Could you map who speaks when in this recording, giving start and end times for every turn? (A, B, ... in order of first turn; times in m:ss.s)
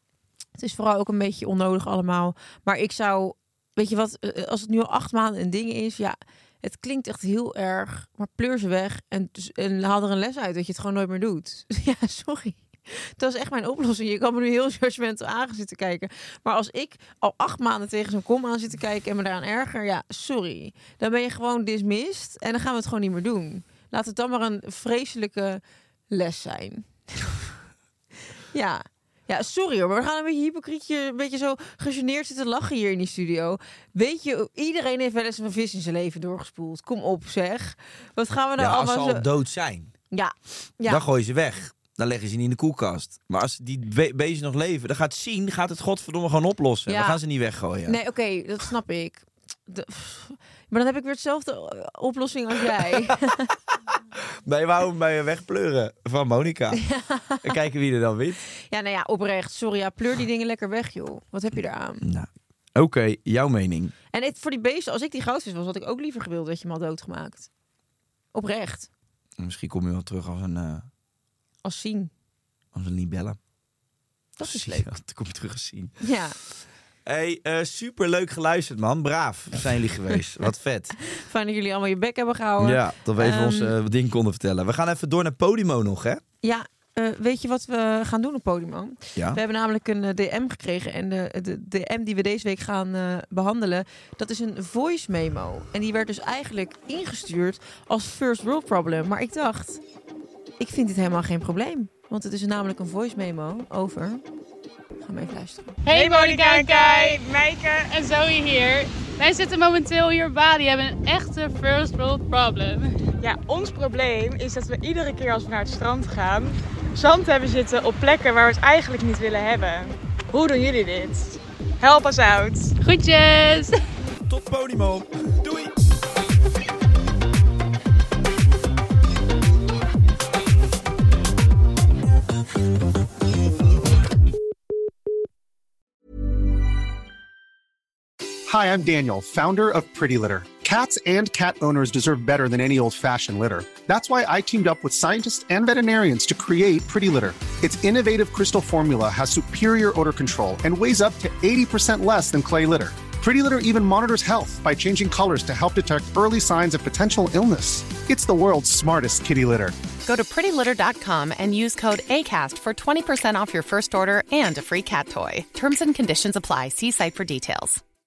0:00.6-0:27.4 A
0:28.5-0:39.2 A
0:38.6-0:39.9 B
0:40.1-0:41.0 A
0:40.9-0:48.0 B
0:46.9-0:47.2 A
0:47.8-0:53.5 A
0:54.4-0:56.8 B
0:56.7-0:57.5 A
0:57.4-0:58.4 B
0:58.6-1:02.0 A
1:02.0-1:03.9 B
1:04.1-1:07.5 A
1:08.3-1:08.9 A
1:09.4-1:10.9 B
1:11.6-1:12.1 A
1:12.7-1:13.4 B
1:14.4-1:14.9 A
1:14.4-1:15.9 B
1:16.0-1:16.4 A
1:17.0-1:20.9 B
1:21.0-1:23.7 A
1:22.6-1:26.2 B
1:26.4-1:39.8 A
1:40.6-1:44.2 A
1:45.0-1:45.8 A
1:45.8-1:47.3 C
1:45.9-1:47.8 D
1:47.9-1:53.0 C
1:53.2-2:02.7 D
2:02.8-2:03.7 A
2:04.3-2:05.7 B
2:18.5-2:39.8 E
2:40.0-2:47.8 F